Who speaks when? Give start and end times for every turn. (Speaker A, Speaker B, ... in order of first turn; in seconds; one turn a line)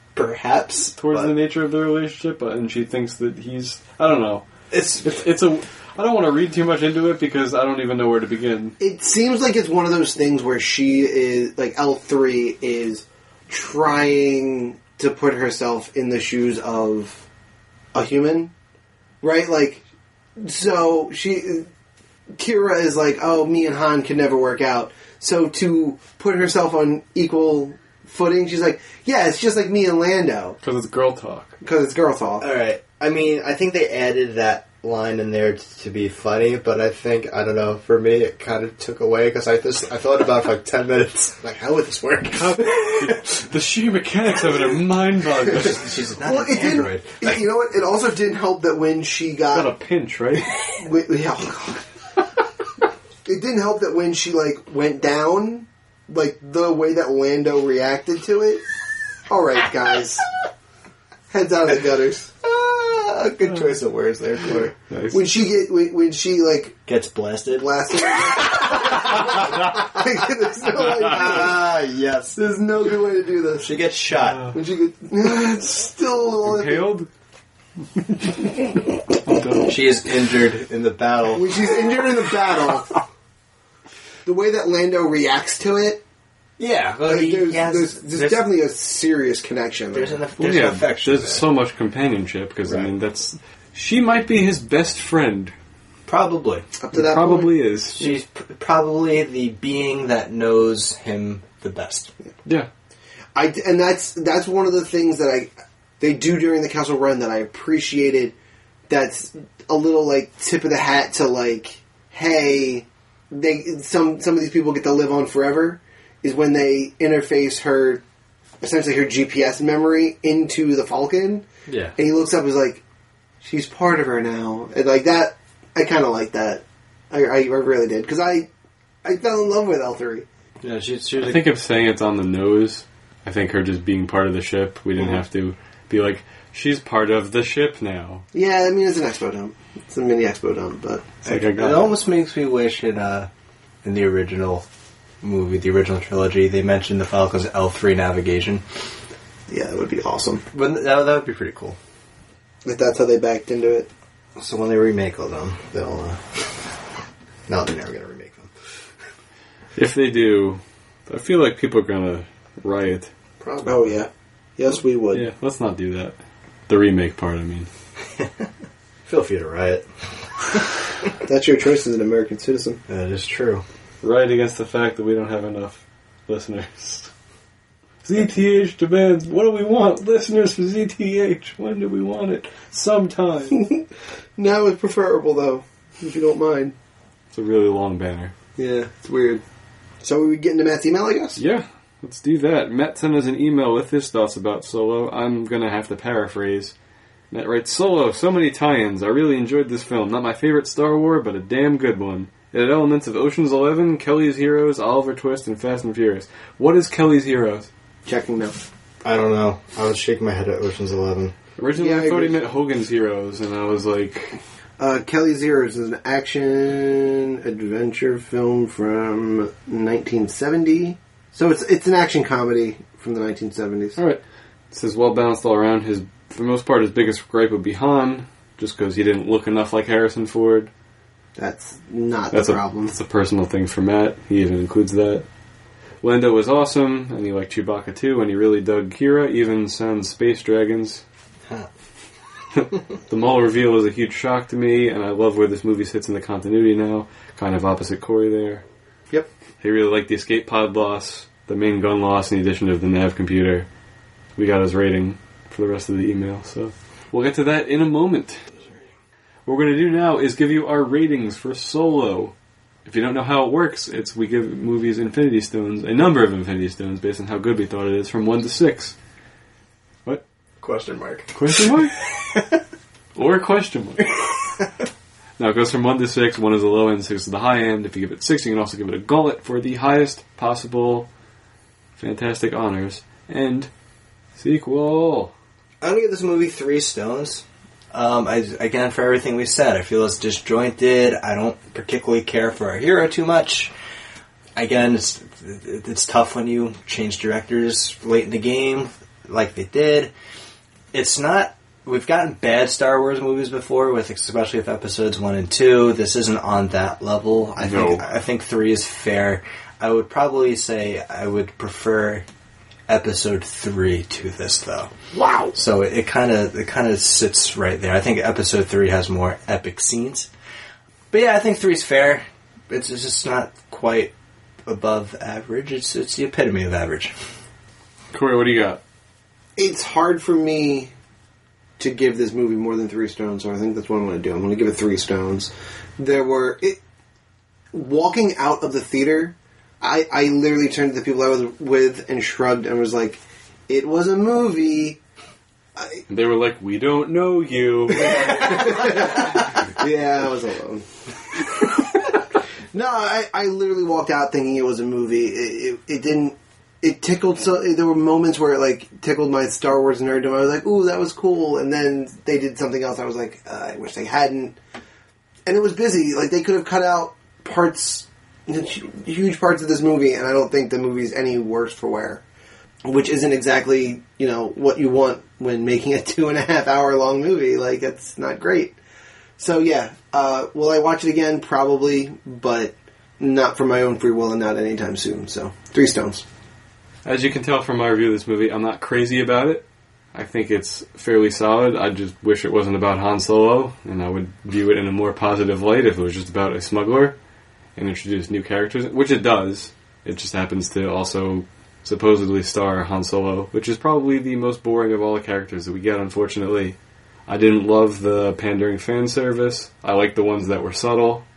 Speaker A: 0.1-1.3
Speaker B: 1.0-4.4
Speaker A: 4.7-5.2
Speaker B: 5.0-8.8
Speaker C: 8.8-17.2
Speaker C: 17.9-18.5
Speaker C: 19.2-19.8
Speaker C: 20.4-21.7
Speaker C: 22.4-30.6
Speaker B: 30.6-31.6
Speaker C: 31.6-32.5
Speaker A: 32.4-43.2
Speaker B: 42.4-45.9
Speaker A: 45.5-47.4
Speaker C: 46.2-49.7
Speaker B: 49.5-50.5
Speaker C: 50.7-51.8
Speaker C: 53.2-58.6
Speaker C: 59.3-60.3
Speaker C: 61.3-62.5
Speaker A: 62.5-64.7
Speaker B: 64.9-65.2
Speaker C: 65.1-66.8
Speaker A: 66.9-69.6
Speaker C: 67.6-71.7
Speaker A: 71.0-72.4
Speaker C: 72.3-73.7
Speaker A: 73.6-74.4
Speaker C: 74.5-76.9
Speaker B: 76.4-77.1
Speaker B: 79.3-79.7
Speaker A: 79.7-81.7
Speaker C: 81.3-83.0
Speaker C: 84.2-86.0
Speaker A: 86.6-88.4
Speaker C: 87.0-90.2
Speaker A: 89.9-91.5
Speaker B: 90.4-95.5
Speaker A: 96.1-96.7
Speaker C: 96.8-97.6
Speaker B: 96.9-98.1
Speaker A: 98.0-102.1
Speaker C: 103.4-108.3
Speaker C: 108.9-118.0
Speaker C: 118.6-121.5
Speaker A: 121.7-122.0
Speaker C: 122.0-122.8
Speaker C: 123.4-128.5
Speaker C: 129.0-130.3
Speaker A: 130.6-131.4
Speaker B: 131.2-138.2
Speaker C: 138.3-141.1
Speaker B: 141.2-141.9
Speaker A: 141.2-143.3
Speaker A: 143.8-144.7
Speaker A: 145.2-148.6
Speaker C: 149.5-150.4
Speaker A: 150.5-151.8
Speaker C: 152.7-153.9
Speaker A: 154.4-156.7
Speaker A: 157.5-158.5
Speaker B: 159.8-163.1
Speaker A: 163.4-163.8
Speaker C: 163.6-165.3
Speaker B: 165.1-166.2
Speaker B: 166.7-167.7
Speaker A: 169.1-169.9
Speaker A: 170.4-170.6
Speaker C: 171.2-172.8
Speaker A: 172.9-173.6
Speaker B: 174.0-177.1
Speaker B: 178.0-183.6
Speaker C: 183.5-183.8
Speaker C: 184.4-186.7
Speaker B: 187.3-188.3
Speaker C: 188.6-189.4
Speaker C: 190.0-191.4
Speaker B: 191.4-196.7
Speaker B: 197.3-207.7
Speaker C: 208.1-208.6
Speaker A: 209.0-211.3
Speaker B: 211.6-214.4
Speaker C: 211.8-212.4
Speaker C: 214.8-224.0
Speaker B: 224.0-230.7
Speaker C: 231.4-232.9
Speaker B: 232.3-235.3
Speaker B: 236.0-241.0
Speaker B: 242.6-248.7
Speaker B: 249.6-253.7
Speaker B: 254.4-258.4
Speaker B: 259.5-262.3
Speaker B: 262.9-269.0
Speaker A: 270.6-272.6
Speaker B: 271.3-272.0
Speaker B: 273.1-274.1
Speaker B: 275.4-281.1
Speaker B: 282.0-283.7
Speaker B: 284.4-285.3
Speaker A: 285.8-293.7
Speaker A: 294.6-300.1
Speaker A: 300.9-312.2
Speaker B: 307.6-308.1
Speaker A: 312.9-314.9
Speaker C: 315.1-315.5
Speaker A: 315.5-320.3
Speaker A: 321.1-324.1
Speaker A: 324.7-327.1
Speaker B: 328.1-328.8
Speaker C: 329.6-330.9
Speaker C: 331.8-336.8
Speaker C: 337.7-345.0
Speaker B: 346.1-349.0
Speaker C: 347.9-350.9
Speaker C: 351.5-352.2
Speaker C: 352.7-364.6
Speaker C: 365.5-372.2
Speaker C: 372.9-378.8
Speaker C: 379.4-386.2
Speaker B: 387.1-397.2
Speaker B: 397.8-411.2